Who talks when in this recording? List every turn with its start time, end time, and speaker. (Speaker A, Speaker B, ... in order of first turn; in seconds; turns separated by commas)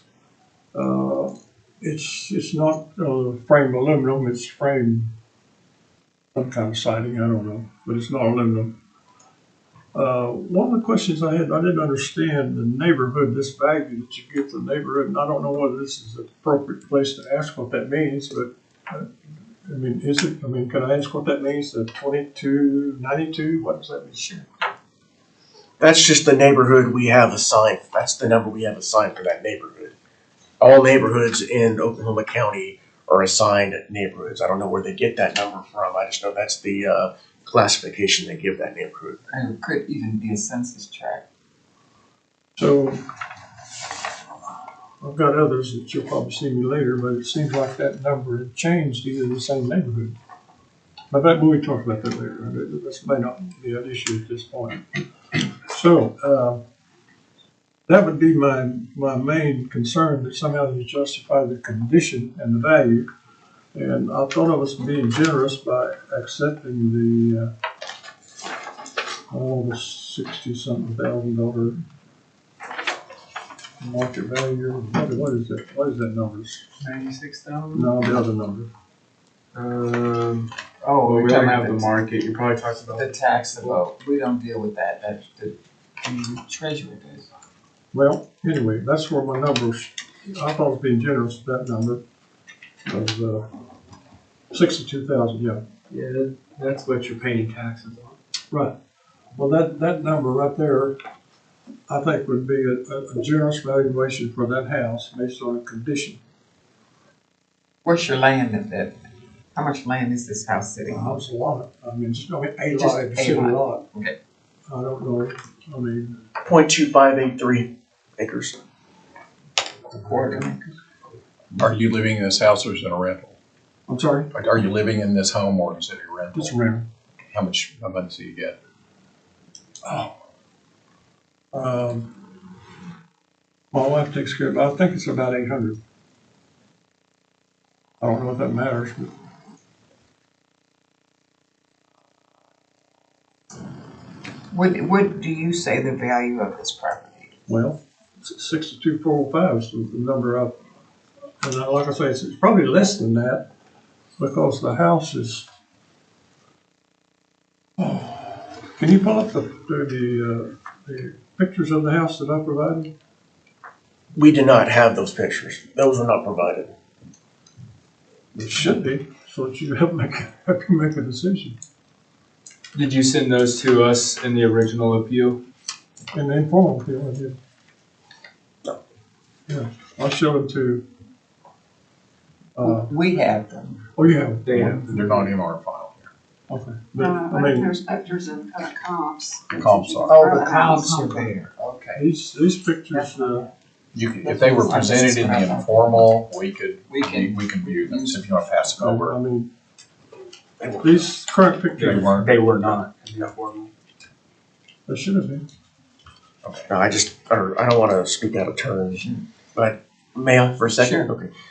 Speaker A: 0.7-5.1, Speaker A: 6.3-8.7, Speaker A: 9.9-19.1, Speaker A: 19.6-24.4, Speaker B: 24.2-24.4, Speaker C: 25.8-29.9, Speaker C: 30.6-39.2, Speaker B: 39.3-41.2, Speaker A: 42.6-43.0, Speaker A: 45.0-50.2, Speaker A: 51.1-54.9, Speaker A: 55.7-56.6, Speaker A: 57.9-63.1, Speaker A: 63.7-67.5, Speaker A: 69.3-71.8, Speaker A: 73.8-76.6, Speaker D: 76.8-77.9, Speaker A: 77.7-78.7, Speaker D: 79.5-80.5, Speaker B: 80.9-81.9, Speaker D: 81.0-83.8, Speaker B: 82.9-87.3, Speaker A: 87.9-92.0, Speaker A: 92.9-93.5, Speaker A: 94.5-95.6, Speaker D: 95.9-98.2, Speaker A: 98.5-98.8, Speaker A: 99.4-101.0, Speaker A: 101.9-106.2, Speaker B: 107.8-109.0, Speaker B: 109.5-111.2, Speaker A: 110.9-113.8, Speaker B: 112.7-114.2, Speaker A: 114.7-116.2, Speaker C: 116.4-118.6, Speaker B: 119.9-120.7, Speaker E: 121.6-123.3, Speaker C: 123.9-124.3, Speaker E: 124.3-126.5, Speaker A: 126.3-126.9, Speaker E: 127.3-128.6, Speaker A: 129.8-130.1, Speaker A: 131.5-132.2, Speaker A: 133.7-135.8, Speaker A: 138.0-139.1, Speaker B: 144.5-147.3, Speaker A: 147.5-150.6, Speaker A: 151.4-153.4, Speaker A: 154.2-155.4, Speaker A: 157.8-162.9, Speaker C: 164.2-166.7, Speaker A: 168.3-171.6, Speaker D: 172.7-175.4, Speaker A: 176.1-177.3, Speaker A: 179.5-180.8, Speaker A: 182.6-182.9, Speaker B: 182.6-183.8, Speaker A: 184.0-185.3, Speaker D: 184.4-185.0, Speaker E: 184.9-185.9, Speaker A: 186.5-187.8, Speaker F: 187.0-191.3, Speaker E: 189.5-190.1, Speaker B: 190.1-192.0, Speaker A: 191.9-193.5, Speaker E: 193.9-199.1, Speaker B: 194.2-196.0, Speaker B: 196.9-198.2, Speaker A: 198.8-199.5, Speaker C: 200.6-200.9, Speaker A: 200.8-202.3, Speaker D: 201.8-203.7, Speaker A: 204.9-205.4, Speaker C: 206.7-211.3, Speaker B: 208.9-209.2, Speaker B: 210.8-211.1